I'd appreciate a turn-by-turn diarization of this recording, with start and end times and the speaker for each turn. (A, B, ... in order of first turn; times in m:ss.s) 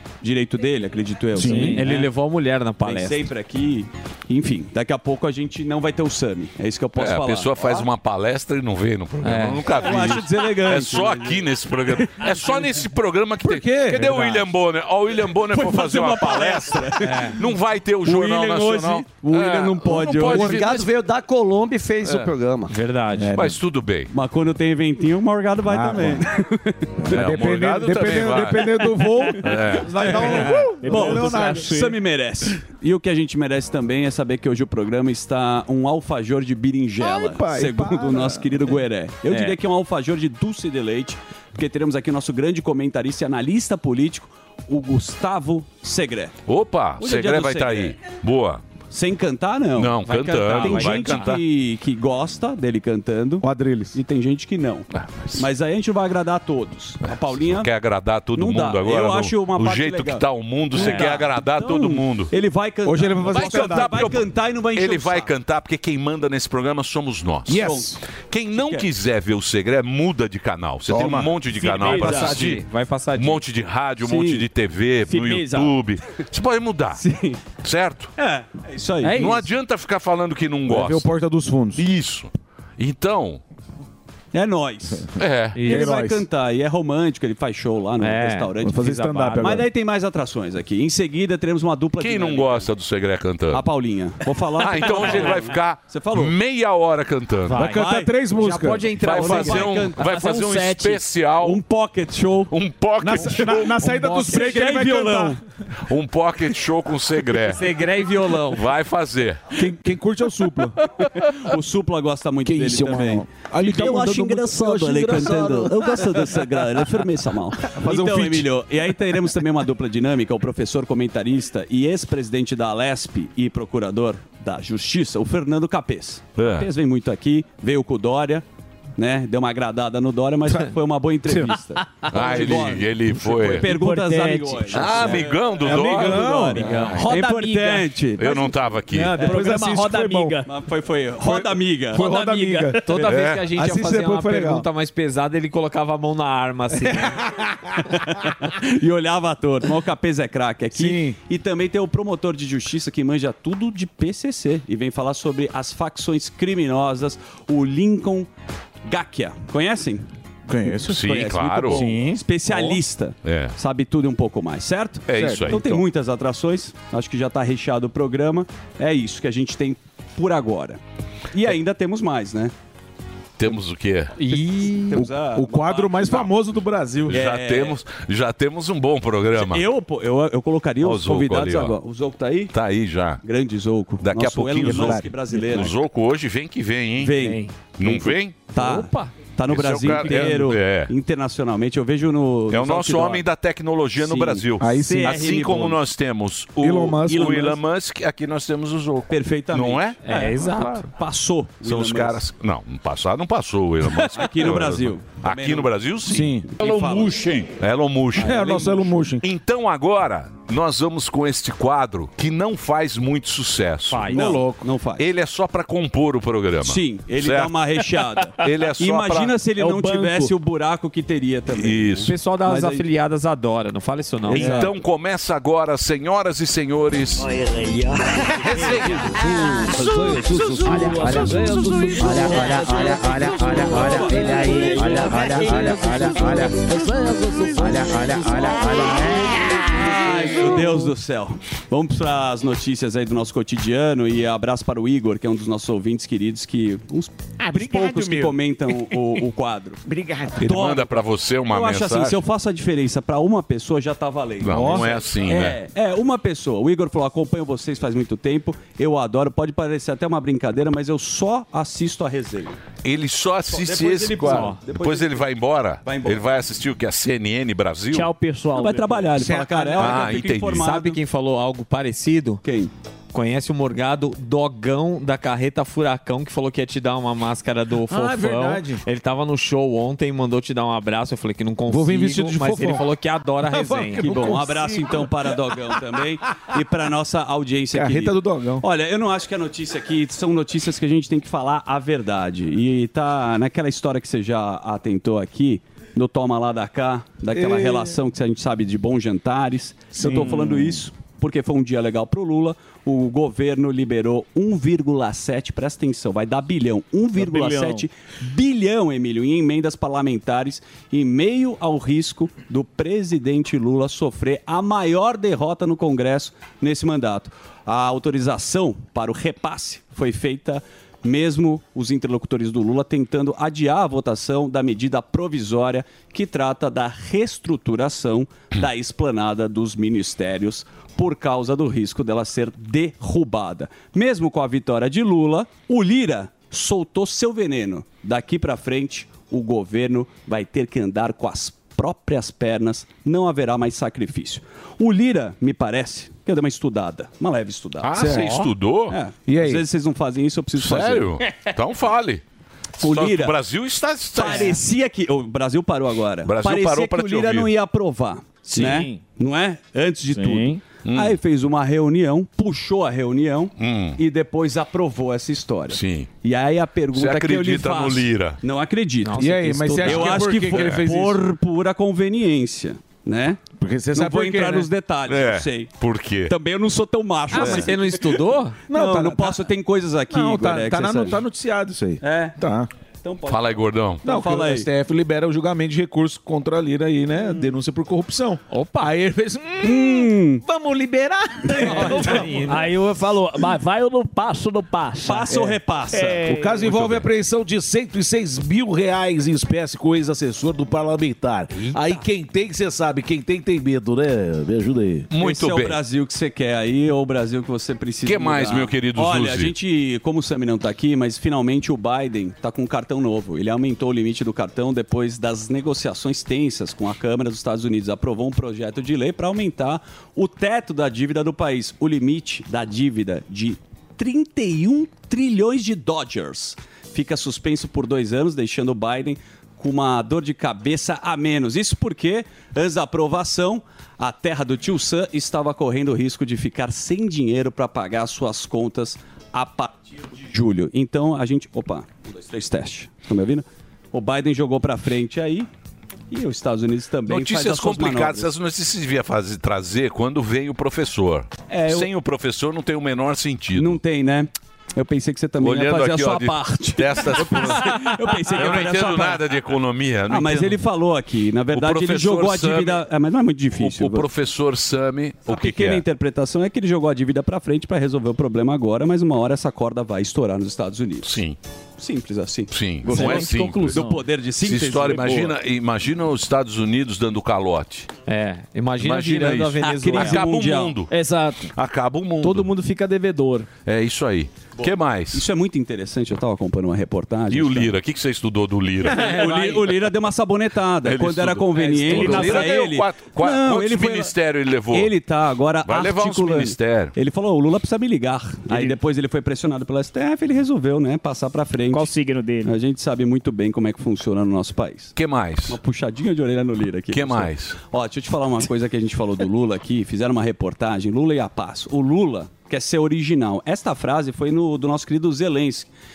0:00.2-0:02.1 A
0:01.4-0:01.8 B
0:01.4-0:03.2 C
0:01.5-0:01.8 D
0:02.8-0:07.8 A
0:07.0-0:20.9 E
0:09.2-0:09.6 C
0:09.8-0:12.6 A
0:13.4-0:14.3 B
0:15.5-0:17.4 A
0:17.0-0:17.4 C
0:18.0-0:20.6 A
0:20.3-0:22.7 F
0:22.7-0:23.3 C
0:23.2-0:23.6 B
0:23.3-0:24.1 E
0:24.1-0:26.9 A
0:25.7-0:26.2 B
0:27.0-0:31.8 B
0:27.1-0:28.8 E
0:29.4-0:30.0 E
0:30.0-0:46.4 A
0:30.8-0:31.8 D
0:37.0-0:38.4 B
0:39.3-0:39.6 C
0:46.5-0:48.6 E
0:47.0-0:48.0 A
0:48.9-0:57.7 A
0:49.8-0:51.4 E
0:50.4-0:51.4 C
0:53.4-0:54.0 B
0:54.9-0:55.5 E
0:57.1-1:02.3 E
0:58.4-1:05.3 A
1:00.8-1:01.3 C
1:02.9-1:03.9 B
1:03.3-1:12.6 E
1:07.5-1:08.0 B
1:07.5-1:08.0 A
1:08.5-1:08.9 A
1:10.9-1:11.3 B
1:11.6-1:12.4 D
1:11.6-1:13.4 C
1:11.9-1:12.3 A
1:13.2-1:17.0 E
1:14.0-1:14.4 A
1:15.1-1:15.8 D
1:17.0-1:17.4 A
1:17.6-1:18.1 E
1:18.2-1:19.5 A
1:19.0-1:19.3 C
1:19.1-1:21.1 E
1:20.7-1:21.8 B
1:21.8-1:23.4 E
1:24.3-1:25.1 A
1:25.2-1:25.7 E
1:25.6-1:25.9 C
1:25.6-1:32.7 A
1:25.7-1:26.2 B
1:28.0-1:29.4 C
1:28.6-1:29.7 B
1:32.0-1:33.6 E
1:33.5-1:36.4 A
1:34.6-1:37.7 E
1:37.5-1:37.8 C
1:37.5-1:38.9 B
1:37.6-1:38.2 A
1:38.4-1:40.9 C
1:38.9-1:41.6 E
1:39.0-1:40.4 A
1:40.1-1:40.9 D
1:41.4-1:42.5 A
1:42.5-1:43.7 E
1:43.0-1:45.4 B
1:43.2-1:43.6 A
1:43.8-1:44.8 C
1:44.3-1:45.4 A
1:45.9-1:47.7 E
1:47.5-1:48.6 C
1:48.5-1:49.4 E
1:49.6-1:50.8 B
1:51.2-2:08.4 A
1:52.4-1:56.2 B
1:57.7-1:58.5 B
2:06.4-2:06.7 E
2:09.0-2:18.5 A
2:11.3-2:11.6 B
2:12.1-2:13.7 E
2:13.6-2:15.2 D
2:14.7-2:16.4 E
2:15.6-2:17.0 B
2:16.8-2:17.8 D
2:18.2-2:19.2 E
2:18.9-2:20.4 B
2:19.2-2:20.5 D
2:20.4-2:22.1 A
2:21.2-2:22.9 B
2:22.0-2:22.8 D
2:22.8-2:27.2 C
2:23.0-2:23.5 E
2:23.5-2:24.7 B
2:26.9-2:27.7 B
2:28.4-2:38.3 A
2:30.7-2:31.2 B
2:38.9-2:40.1 A
2:40.5-2:41.1 B
2:40.9-2:41.8 E
2:40.9-2:50.8 A
2:41.7-2:42.2 B
2:43.2-2:43.5 E
2:45.1-2:45.8 E
2:45.2-2:45.6 B
2:51.3-2:52.5 A
2:53.4-2:54.3 E
2:54.2-2:55.0 C
2:54.3-2:56.3 A
2:54.9-2:57.1 B
2:57.1-2:59.7 E
2:57.1-2:57.8 A
2:59.4-3:02.5 A
3:00.8-3:01.8 E
3:02.5-3:03.2 E
3:03.2-3:05.8 A
3:04.0-3:07.2 E
3:04.6-3:05.0 B
3:07.0-3:13.3 A
3:07.2-3:07.5 C
3:07.8-3:08.5 E
3:08.6-3:09.1 C
3:09.5-3:10.9 E
3:12.5-3:20.0 E
3:14.0-3:15.8 A
3:14.6-3:15.3 B
3:16.6-3:17.6 B
3:19.1-3:20.3 A
3:20.0-3:20.9 C
3:20.4-3:20.8 B
3:21.0-3:22.2 A
3:21.6-3:26.4 E
3:24.0-3:27.2 A
3:26.1-3:27.5 B
3:27.6-3:28.6 E
3:28.2-3:28.9 A
3:28.2-3:29.2 B
3:29.2-3:34.2 E
3:33.9-3:34.4 C
3:34.1-3:35.1 A
3:34.1-3:34.6 B
3:35.0-3:37.6 E
3:36.6-3:42.8 A
3:38.4-3:39.4 E
3:39.6-3:40.3 D
3:41.5-3:42.1 E
3:42.1-3:44.5 C
3:44.3-3:44.7 A
3:44.4-3:44.7 B
3:44.4-3:47.3 E
3:48.4-3:49.1 E
3:49.2-4:00.8 B
3:50.7-3:51.6 C
3:53.5-3:56.0 A
3:54.8-3:56.1 C
3:59.8-4:09.8 A
4:07.4-4:08.4 B
4:09.9-4:10.5 B
4:10.4-4:12.2 E
4:10.4-4:22.6 A
4:14.4-4:15.6 E
4:14.5-4:14.9 B
4:22.8-4:28.1 E
4:23.5-4:25.2 A
4:24.2-4:24.6 C
4:25.8-4:26.2 A
4:27.9-4:29.0 D
4:28.5-4:31.0 A
4:29.2-4:30.0 B
4:29.8-4:30.7 E
4:30.5-4:32.4 C
4:32.4-4:32.7 A
4:33.1-4:44.2 C
4:37.9-4:38.8 B
4:41.7-4:42.9 B
4:43.5-4:45.6 B
4:44.0-5:48.3 A
4:47.7-4:48.6 B
4:57.3-4:57.9 B
5:00.0-5:00.8 B
5:47.8-5:49.0 E
5:48.0-5:48.4 B
5:48.9-5:51.2 A
5:49.3-5:49.6 B
5:50.6-5:52.2 E
5:52.8-5:53.4 A
5:52.8-5:54.6 E
5:54.1-6:13.4 A
5:56.2-5:57.5 E
5:58.6-5:58.9 D
5:58.6-5:58.8 C
6:00.2-6:00.6 D
6:00.8-6:01.2 E
6:03.6-6:04.0 E
6:05.7-6:06.1 E
6:06.9-6:08.4 E
6:09.0-6:10.1 C
6:09.2-6:11.2 B
6:09.9-6:10.9 E
6:13.6-6:14.7 B
6:13.9-6:15.7 A
6:15.1-6:16.3 E
6:16.3-6:21.2 A
6:17.3-6:18.6 C
6:17.3-6:17.7 E
6:18.7-6:19.4 B
6:20.1-6:22.7 B
6:22.0-6:22.4 A
6:23.0-6:24.7 A
6:23.3-6:24.0 E
6:24.0-6:32.6 B
6:28.5-6:28.8 C
6:29.6-6:30.4 A
6:31.6-6:32.2 A
6:31.6-6:32.7 C
6:31.9-6:35.3 D
6:35.0-6:36.3 A
6:36.2-6:45.1 B
6:36.7-6:37.0 E
6:45.1-6:45.8 E
6:45.2-7:25.5 A
6:48.0-6:49.5 E
7:26.1-7:28.3 A
7:27.1-7:33.8 E
7:31.5-7:31.9 A
7:33.6-7:39.2 A
7:35.4-7:40.6 E
7:40.1-7:44.1 A
7:41.5-7:42.8 E
7:43.6-7:45.8 E
7:45.3-7:51.1 A
7:51.0-7:51.4 E
7:51.8-7:55.3 A
7:52.5-7:53.8 E
7:52.9-7:53.9 D
7:54.4-7:57.9 E
7:58.1-8:00.2 C
7:58.8-8:00.9 E
7:59.6-8:00.8 A
8:00.9-8:01.5 D
8:01.5-8:02.5 E
8:02.2-8:03.5 D
8:03.6-8:05.2 E
8:04.6-8:07.7 A
8:07.3-8:09.5 E
8:08.8-8:14.2 A
8:08.9-8:09.6 C
8:10.8-8:14.9 E
8:11.8-8:12.5 C
8:14.7-8:24.9 A
8:15.6-8:16.9 E
8:25.0-8:25.6 E
8:25.5-8:35.7 A
8:26.9-8:27.6 E